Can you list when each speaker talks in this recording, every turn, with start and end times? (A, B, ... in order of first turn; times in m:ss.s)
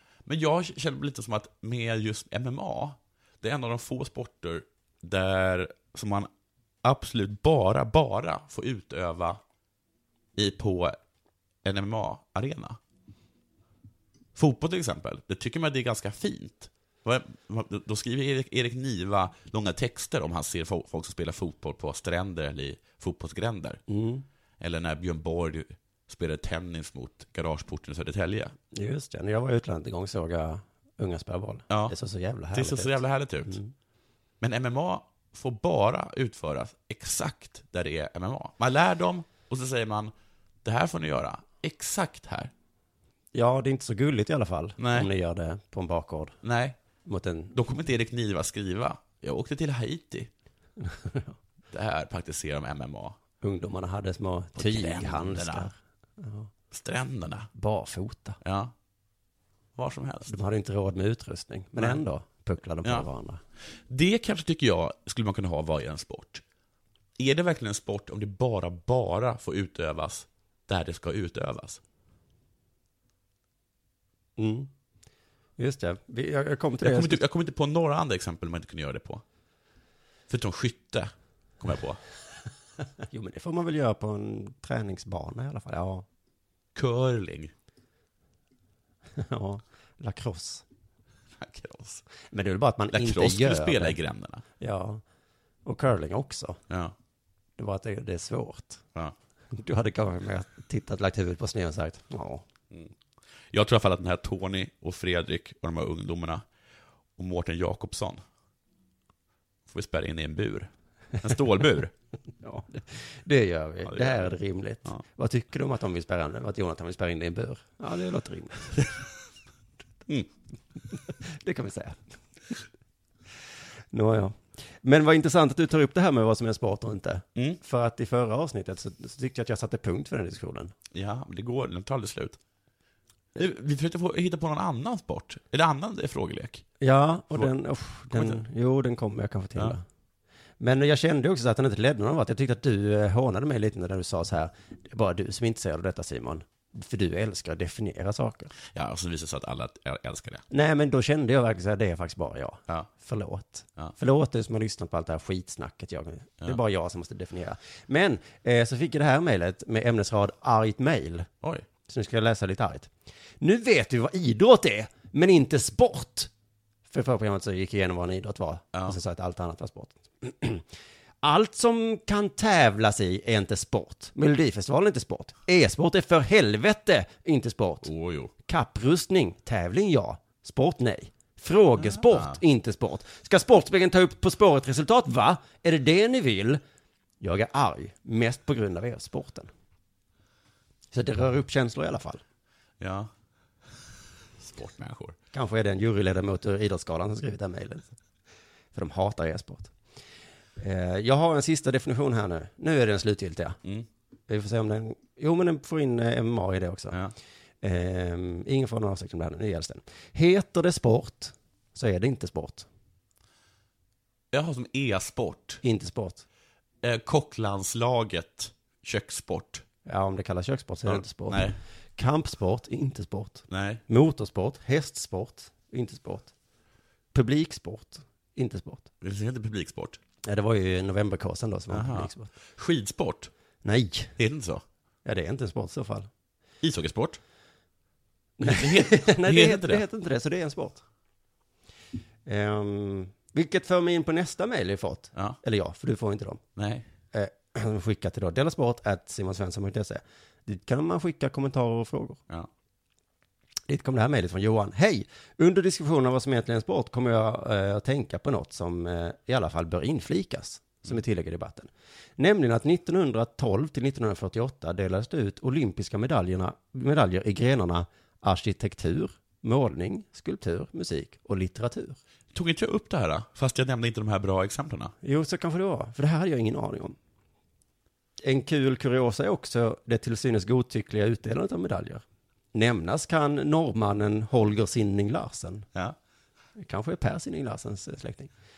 0:00.3-0:06.3 A
0:06.8-0:09.4 A
0:10.4-0:11.0 A
0:11.6-0:12.8 A
0:14.4-0:23.8 A
0:23.9-0:24.2 B
0:24.6-0:28.5 A
0:28.7-0:33.7 B
0:32.5-0:33.6 A
0:34.4-0:40.1 A
0:40.6-0:42.5 A
0:43.3-0:46.4 B
0:44.8-0:45.1 A
0:46.4-0:46.8 A
0:47.1-0:47.6 B
0:47.6-0:50.3 A
0:50.8-0:51.3 B
0:51.7-0:53.2 A
0:53.4-0:56.5 B
0:54.6-0:55.7 A
0:56.7-0:57.5 A
0:57.5-0:58.4 B
0:58.4-0:58.7 A
0:59.8-1:00.4 A
1:00.3-1:03.4 B
1:03.9-1:06.4 A
1:07.2-1:11.8 A
1:14.4-1:14.7 B
1:15.6-1:17.2 B
1:16.8-1:19.2 A
1:20.3-1:22.0 A
1:23.0-1:26.1 B
1:26.8-1:27.5 A
1:29.2-1:30.6 B
1:31.4-1:32.0 A
1:32.3-1:34.0 B
1:32.9-1:34.4 A
1:34.6-1:35.0 B
1:35.6-1:36.6 B
1:36.7-1:37.0 A
1:37.6-1:38.8 B
1:39.5-1:42.4 B
1:43.5-1:46.4 A
1:47.2-1:48.2 A
1:49.7-1:51.9 A
1:52.4-1:58.7 B
1:53.9-1:54.3 A
2:01.2-2:02.1 B
2:03.9-2:10.7 B
2:10.9-2:12.4 A
2:13.4-2:16.6 A
2:16.8-2:19.8 B
2:18.1-2:18.4 A
2:20.6-2:28.5 B
2:28.7-2:30.4 A
2:30.5-2:41.3 B
2:41.9-2:46.3 B
2:46.9-2:50.6 B
2:51.2-2:57.9 B
2:57.8-2:58.3 A
2:58.5-3:06.6 B
3:01.8-3:02.4 A
3:07.2-3:09.5 B
3:10.9-3:12.2 B
3:12.8-3:13.1 A
3:14.4-3:15.2 A
3:15.3-3:17.9 B
3:18.7-3:19.7 B
3:20.6-3:23.6 B
3:24.3-3:27.0 B
3:27.6-3:32.7 B
3:34.3-3:35.6 A
3:35.6-3:36.2 B
3:36.8-3:39.6 A
3:39.9-3:46.3 B
3:40.9-3:41.6 A
3:43.5-3:43.8 A
3:47.1-3:48.9 B
3:49.0-3:50.0 A
3:50.2-3:52.3 B
3:51.7-3:53.3 A
3:53.6-3:54.1 B
3:54.2-3:54.6 A
3:55.0-3:56.1 B
3:56.6-3:57.2 A
3:58.4-4:00.8 B
3:58.4-3:59.8 A
4:02.3-4:06.4 B
4:06.6-4:06.9 A
4:07.1-4:12.2 B
4:13.7-4:32.0 B
4:32.3-4:34.9 A
4:35.0-4:37.0 B
4:38.2-4:45.7 B
4:46.6-4:48.3 B